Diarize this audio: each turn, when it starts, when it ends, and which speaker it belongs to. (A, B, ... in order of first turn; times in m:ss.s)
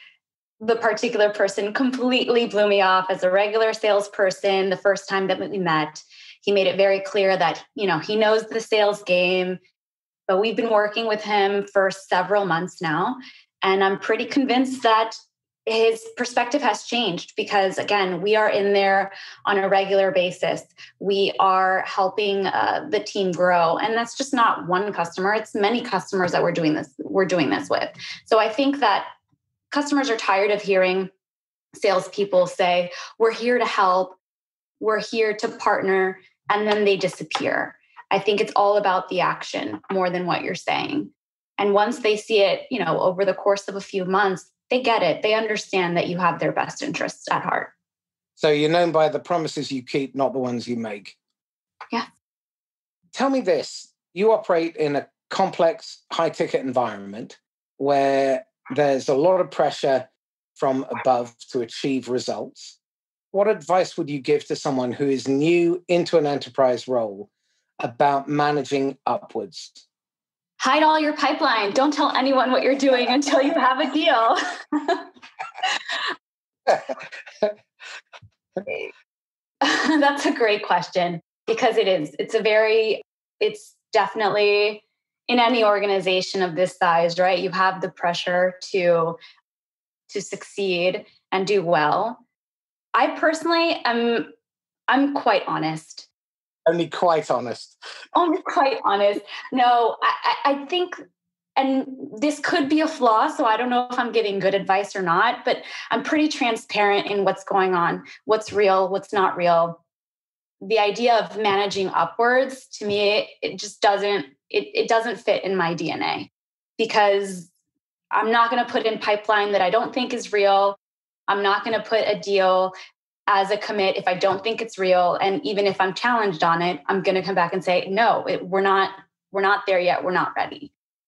0:00.6-0:09.6 A
0:10.3-0:29.1 A
0:29.7-0:31.1 A
0:31.8-0:34.2 A
0:34.8-0:47.7 A
0:48.4-0:51.2 B
0:53.1-1:02.8 B
1:03.3-1:07.3 B
1:07.8-1:09.8 B
1:10.6-1:15.1 A
1:15.6-1:16.1 A
1:16.7-1:17.6 B
1:19.6-1:29.2 A
1:30.1-1:32.2 A
1:33.0-1:34.3 A
1:34.9-1:36.1 A
1:36.7-1:37.8 B
1:38.1-1:41.0 A
1:41.6-1:49.8 A
1:50.6-1:57.5 A
1:58.1-2:02.7 A
2:03.3-2:10.7 A